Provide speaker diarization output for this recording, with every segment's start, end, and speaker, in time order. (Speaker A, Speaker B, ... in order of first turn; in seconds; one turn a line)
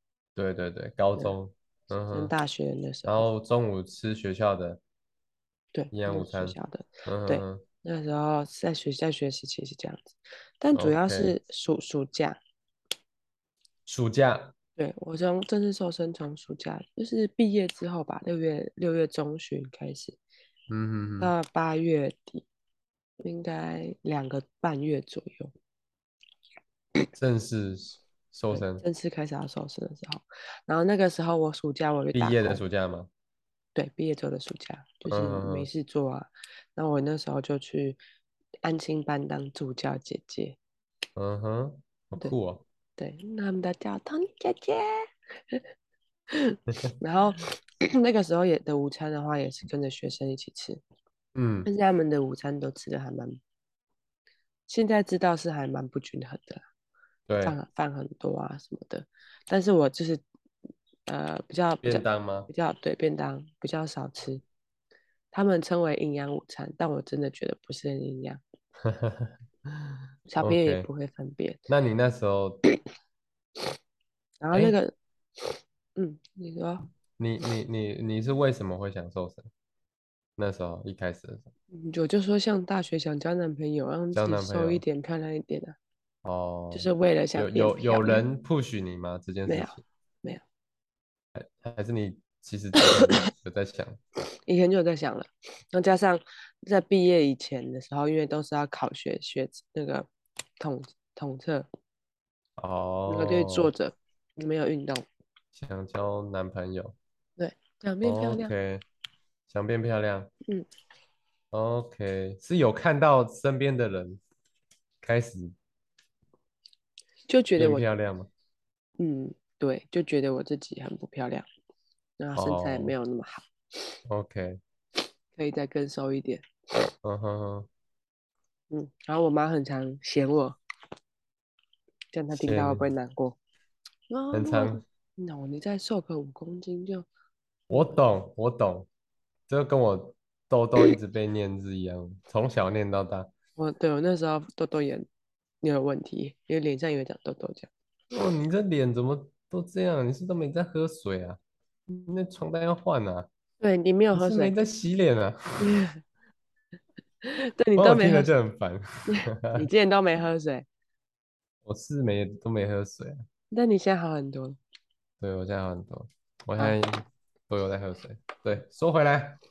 Speaker A: 0.4-2.3
Speaker B: 2.1-3.3
Speaker A: 3.0-4.8
Speaker B: 5.7-12.4
Speaker A: 5.9-7.6
Speaker A: 10.8-11.3
Speaker A: 13.9-14.5
Speaker B: 14.8-20.2
Speaker A: 20.7-21.3
Speaker B: 21.2-22.4
Speaker B: 23.2-25.5
Speaker A: 27.2-28.8
Speaker B: 28.5-32.6
Speaker A: 32.1-33.1
Speaker B: 33.8-38.0
Speaker A: 35.1-35.7
Speaker B: 38.6-40.6
Speaker A: 41.2-42.6
Speaker B: 43.0-45.6
Speaker B: 46.3-50.8
Speaker A: 51.4-51.7
Speaker B: 51.7-53.4
Speaker B: 54.7-56.6
Speaker A: 57.3-57.6
Speaker B: 57.4-60.2
Speaker B: 61.1-64.4
Speaker A: 61.8-62.5
Speaker B: 65.3-68.4
Speaker A: 68.8-69.3
Speaker B: 70.3-71.6
Speaker A: 70.4-70.9
Speaker A: 71.7-72.6
Speaker B: 74.4-74.9
Speaker B: 76.0-76.9
Speaker A: 77.2-79.5
Speaker A: 80.4-81.5
Speaker B: 81.7-85.8
Speaker A: 84.1-84.8
Speaker A: 86.2-89.8
Speaker B: 86.7-88.2
Speaker B: 89.5-90.4
Speaker A: 91.3-94.0
Speaker B: 94.5-100.1
Speaker B: 100.6-101.7
Speaker A: 102.6-103.7
Speaker B: 103.1-105.1
Speaker A: 105.5-107.0
Speaker B: 107.4-108.5
Speaker A: 108.0-108.8
Speaker A: 109.5-110.3
Speaker A: 111.5-114.2
Speaker A: 115.0-115.5
Speaker B: 117.3-117.8
Speaker A: 117.6-118.3
Speaker B: 119.0-121.5
Speaker B: 122.2-123.5
Speaker A: 122.3-122.9
Speaker A: 124.1-124.6
Speaker B: 125.4-126.5
Speaker A: 127.0-127.7
Speaker B: 128.7-130.6
Speaker B: 132.1-133.4
Speaker A: 132.3-132.9
Speaker B: 134.1-137.1
Speaker A: 134.3-134.8
Speaker A: 137.7-138.9
Speaker A: 139.5-143.3
Speaker B: 143.6-145.1
Speaker B: 145.6-147.7
Speaker A: 148.1-151.4
Speaker A: 151.9-153.3
Speaker B: 153.6-154.6
Speaker A: 154.1-155.7
Speaker B: 155.6-156.0
Speaker B: 157.2-158.3
Speaker A: 157.8-159.7
Speaker B: 159.1-160.7
Speaker A: 161.7-163.2
Speaker B: 163.5-164.6
Speaker A: 165.2-169.4